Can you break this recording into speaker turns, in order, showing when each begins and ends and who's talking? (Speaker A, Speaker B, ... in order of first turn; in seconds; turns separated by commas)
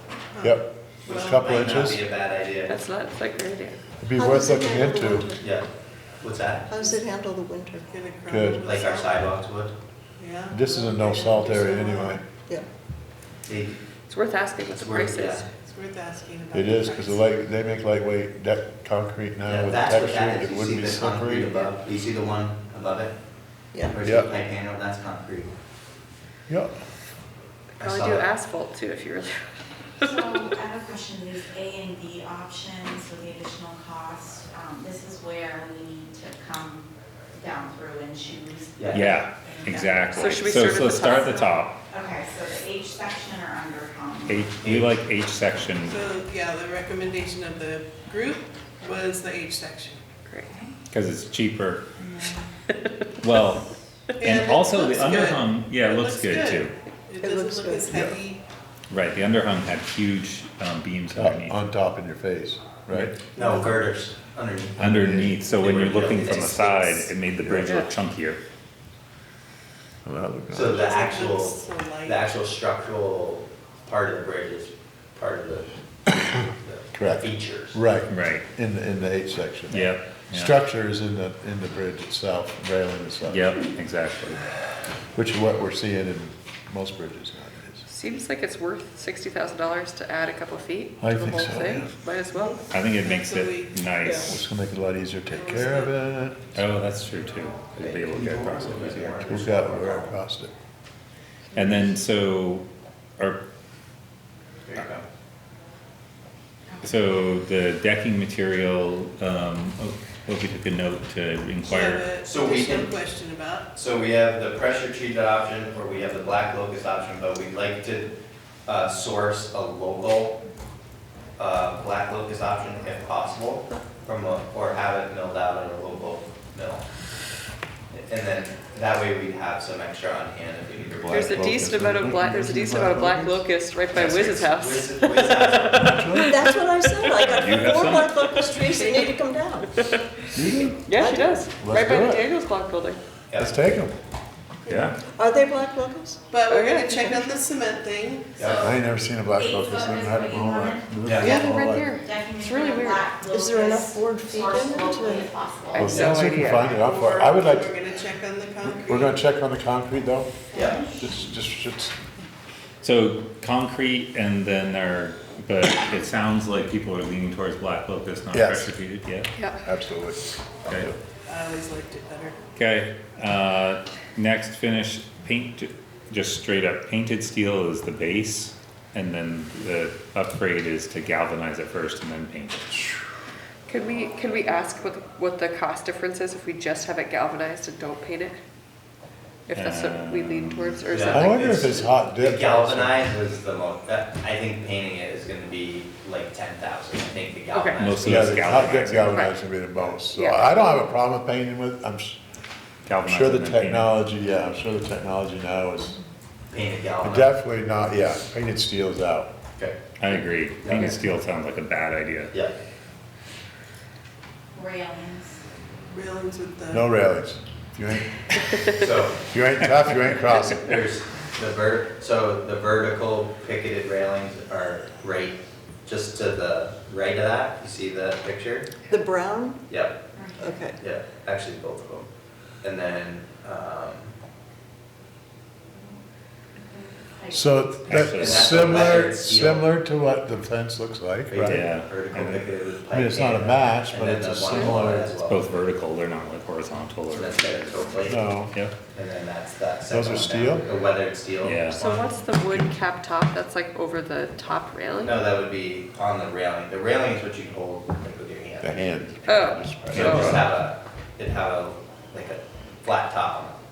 Speaker A: 0.3-1.4, Speaker B: 0.4-2.0, Speaker C: 1.1-2.8, Speaker D: 2.7-3.8, Speaker B: 4.0-5.3, Speaker E: 4.2-5.4, Speaker C: 5.4-5.7, Speaker C: 6.2-6.7, Speaker E: 6.7-7.9, Speaker A: 7.9-9.3, Speaker B: 8.3-8.7, Speaker C: 8.6-9.7, Speaker A: 10.2-12.2, Speaker B: 10.5-12.2, Speaker C: 13.5-13.8, Speaker D: 14.1-15.5, Speaker C: 14.7-15.4, Speaker A: 15.5-17.3, Speaker B: 16.5-21.7, Speaker C: 19.5-23.1, Speaker C: 23.9-25.5, Speaker B: 24.0-24.3, Speaker C: 27.8-28.3, Speaker D: 27.8-30.2, Speaker F: 30.0-44.6, Speaker C: 38.8-39.2, Speaker G: 38.9-41.8, Speaker D: 40.2-41.2, Speaker G: 44.2-46.0, Speaker C: 44.6-45.0, Speaker A: 45.9-50.0, Speaker D: 50.3-50.5, Speaker F: 50.4-50.7, Speaker G: 50.9-51.9, Speaker F: 52.0-52.5, Speaker G: 53.2-53.6, Speaker A: 54.2-58.4, Speaker G: 54.2-56.7, Speaker E: 57.2-58.1, Speaker G: 58.9-61.6, Speaker B: 61.1-63.2, Speaker C: 62.9-67.1, Speaker E: 63.4-63.7, Speaker G: 64.8-68.4, Speaker B: 70.0-70.9, Speaker C: 70.5-77.8, Speaker A: 70.7-72.3, Speaker B: 76.9-83.6, Speaker G: 78.1-78.5, Speaker G: 79.7-80.6, Speaker G: 83.3-84.4, Speaker B: 85.1-87.9, Speaker D: 87.9-92.6, Speaker B: 91.0-91.9, Speaker A: 92.4-93.8, Speaker G: 92.7-94.4, Speaker E: 94.0-94.4, Speaker B: 94.2-96.5, Speaker A: 95.3-96.0, Speaker G: 96.5-99.3, Speaker C: 97.8-100.2, Speaker B: 99.2-100.5, Speaker G: 101.5-102.7, Speaker C: 104.7-105.0, Speaker G: 106.8-112.1, Speaker A: 111.6-113.7, Speaker C: 112.2-112.9, Speaker C: 113.7-118.1, Speaker C: 118.7-120.4, Speaker C: 121.4-126.8, Speaker C: 127.9-131.6, Speaker B: 130.8-133.5, Speaker D: 131.1-136.3, Speaker C: 133.9-136.0, Speaker B: 135.8-136.4, Speaker E: 136.1-139.7, Speaker G: 137.1-138.5, Speaker D: 138.6-139.1, Speaker D: 139.8-140.1, Speaker B: 140.3-142.3, Speaker D: 140.8-143.0, Speaker E: 140.9-141.5, Speaker C: 143.3-143.6, Speaker B: 143.4-143.9, Speaker G: 144.7-145.0, Speaker E: 145.1-146.2, Speaker A: 146.3-148.4, Speaker D: 146.5-146.8, Speaker E: 146.7-147.4, Speaker C: 148.4-148.7, Speaker B: 148.5-151.9, Speaker F: 149.3-156.3, Speaker C: 151.1-151.4, Speaker D: 151.2-153.1, Speaker E: 153.3-155.3, Speaker D: 155.7-156.8, Speaker B: 155.8-157.7, Speaker A: 156.6-159.2, Speaker B: 158.6-160.4, Speaker F: 160.5-161.0, Speaker C: 160.5-160.8, Speaker B: 161.0-161.9, Speaker G: 162.8-169.3, Speaker B: 168.3-168.7, Speaker B: 169.6-171.0, Speaker A: 171.3-172.4, Speaker G: 172.6-182.6, Speaker D: 183.7-188.4, Speaker D: 189.5-191.5, Speaker G: 189.5-190.8, Speaker C: 190.9-198.8, Speaker B: 191.1-193.0, Speaker D: 197.5-197.8, Speaker G: 197.8-199.2, Speaker B: 198.0-202.2, Speaker D: 199.1-199.4, Speaker D: 200.1-200.6, Speaker G: 202.9-203.9, Speaker B: 203.1-206.0, Speaker C: 206.5-207.3, Speaker B: 207.0-209.3, Speaker G: 210.0-212.3, Speaker C: 210.6-210.9, Speaker F: 214.6-215.4, Speaker A: 215.9-216.9, Speaker B: 216.7-218.2, Speaker C: 218.7-219.2, Speaker B: 219.2-220.8, Speaker C: 220.4-228.7, Speaker E: 228.9-229.6, Speaker C: 229.7-230.0, Speaker F: 230.1-230.5, Speaker E: 230.4-230.8, Speaker C: 230.8-232.1, Speaker C: 232.6-234.1, Speaker F: 236.6-237.6, Speaker B: 237.3-241.7, Speaker G: 237.9-239.1, Speaker C: 238.1-239.7, Speaker C: 241.3-245.5, Speaker G: 241.5-242.5, Speaker B: 242.9-245.1, Speaker G: 245.2-247.8, Speaker C: 247.1-248.3, Speaker B: 248.0-248.6, Speaker C: 248.9-252.2, Speaker B: 249.9-250.7, Speaker G: 251.4-251.8, Speaker D: 251.8-255.2, Speaker C: 255.0-258.8, Speaker B: 258.6-260.4, Speaker D: 259.3-260.3, Speaker C: 259.9-263.6, Speaker G: 259.9-260.5